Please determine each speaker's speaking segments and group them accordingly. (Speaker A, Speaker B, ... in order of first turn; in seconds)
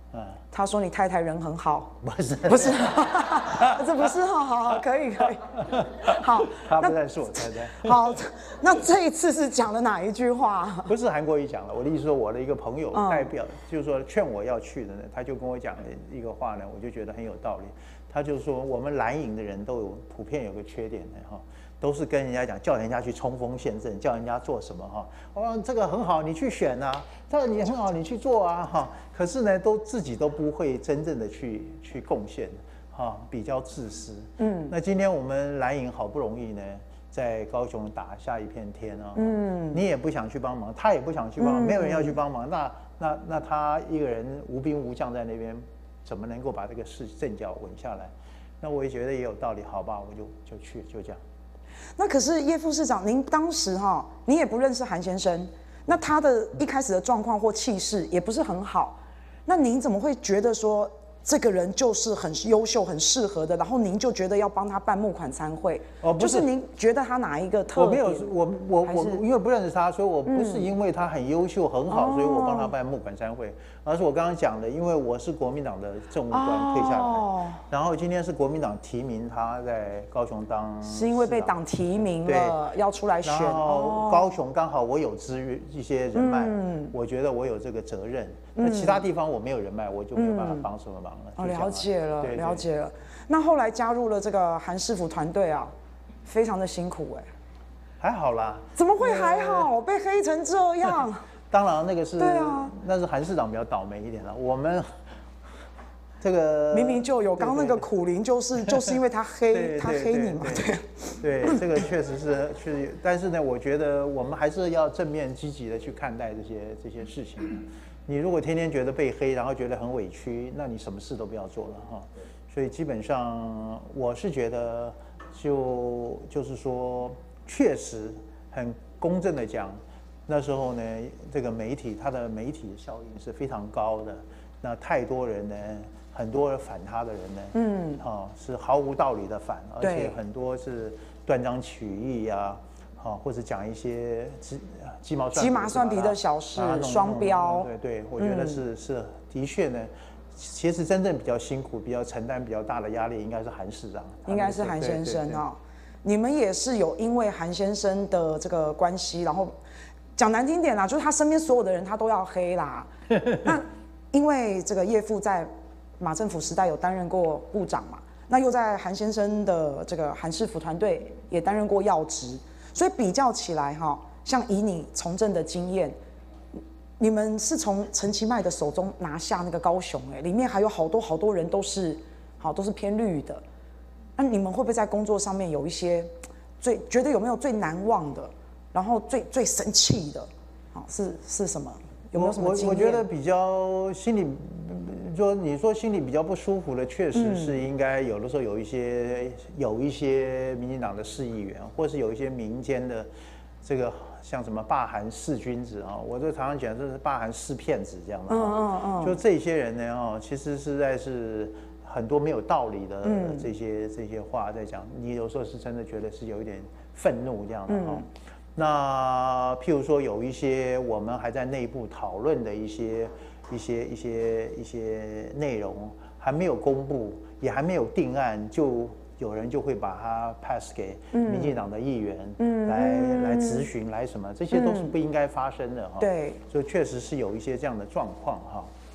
Speaker A: 0.1-0.4, 2.0-3.8, 5.6-8.1, 10.8-51.2, 66.0-66.5, 67.7-81.6, 82.2-82.6, 83.2-92.6, 98.0-99.7, 101.5-104.9, 106.2-107.8, 108.7-108.9, 109.5-155.4, 192.1-203.1, 203.6-238.7
Speaker B: 0.5-1.9, 2.5-5.5, 6.0-7.0, 7.7-10.9, 12.9-13.3, 34.4-34.7, 39.1-39.8, 41.4-42.1, 52.0-68.3, 68.8-69.2, 70.3-70.7, 71.9-72.7, 76.3-77.6, 80.8-84.3, 86.1-86.9, 88.6-89.0, 90.1-90.7, 91.4-95.7, 96.2-97.3, 98.8-101.2, 102.2-102.7, 106.7-111.8, 137.5-138.0, 139.8-140.2, 145.3-148.6, 154.2-159.5, 160.2-175.9, 177.0-183.4, 184.2-193.1, 197.1-197.6, 208.3-209.2, 213.0-213.5, 217.7-218.0, 231.1-231.5, 232.4-233.7, 234.5-234.9, 236.0-236.4